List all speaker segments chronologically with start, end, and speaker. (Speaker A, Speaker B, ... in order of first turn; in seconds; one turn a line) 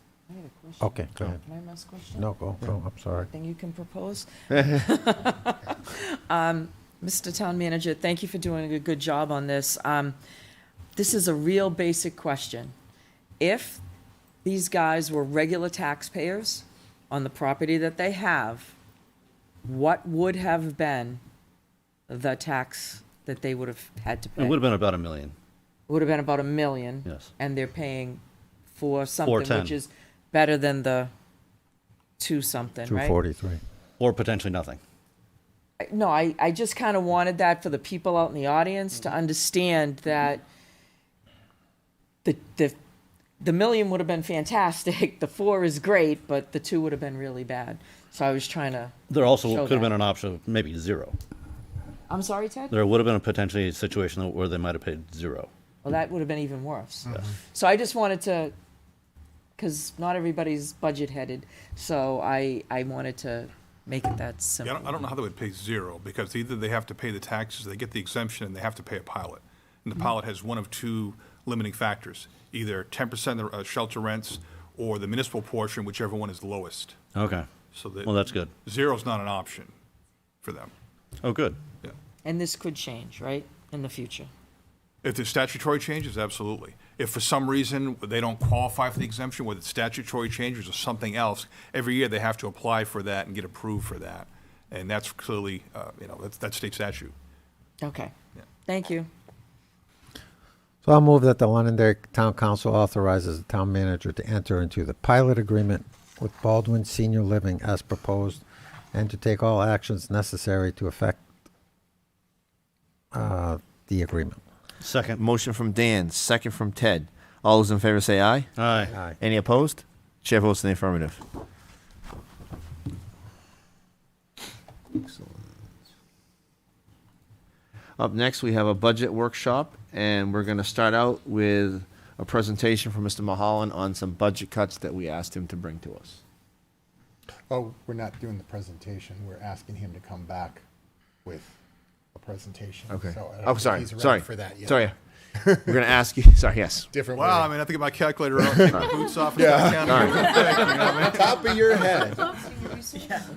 Speaker A: 0.3-2.3
Speaker B: 0.8-1.4
Speaker B: 2.1-3.3
Speaker A: 3.1-10.2
Speaker A: 10.9-12.7
Speaker A: 13.4-13.8
Speaker A: 14.4-18.7
Speaker A: 19.6-21.2
Speaker A: 22.1-24.6
Speaker C: 24.4-25.3
Speaker A: 25.9-28.2
Speaker A: 28.7-31.1
Speaker C: 29.2-29.8
Speaker A: 32.2-33.2
Speaker B: 32.9-33.6
Speaker C: 34.0-34.8
Speaker A: 35.8-40.4
Speaker A: 42.2-42.8
Speaker A: 43.4-49.9
Speaker C: 49.1-51.1
Speaker A: 52.1-52.8
Speaker C: 52.7-55.5
Speaker A: 55.8-58.5
Speaker A: 59.6-65.0
Speaker D: 64.6-77.0
Speaker C: 77.1-77.5
Speaker D: 77.7-78.1
Speaker C: 78.0-78.5
Speaker D: 78.6-79.7
Speaker D: 80.4-80.7
Speaker C: 81.2-81.6
Speaker A: 82.2-84.3
Speaker D: 85.0-97.1
Speaker A: 97.8-98.1
Speaker A: 98.6-99.1
Speaker B: 100.8-111.2
Speaker B: 113.1-114.4
Speaker C: 114.8-115.2
Speaker E: 115.1-121.2
Speaker C: 118.6-118.9
Speaker B: 118.9-119.2
Speaker E: 124.9-125.5
Speaker E: 128.0-136.2
Speaker F: 137.5-140.6
Speaker F: 141.2-141.6
Speaker F: 142.1-145.8
Speaker E: 142.9-144.9
Speaker E: 145.7-146.9
Speaker F: 146.9-147.6
Speaker D: 147.2-151.3
Speaker F: 148.4-148.8
Speaker F: 149.3-150.5
Speaker E: 149.6-150.8
Speaker F: 151.1-152.4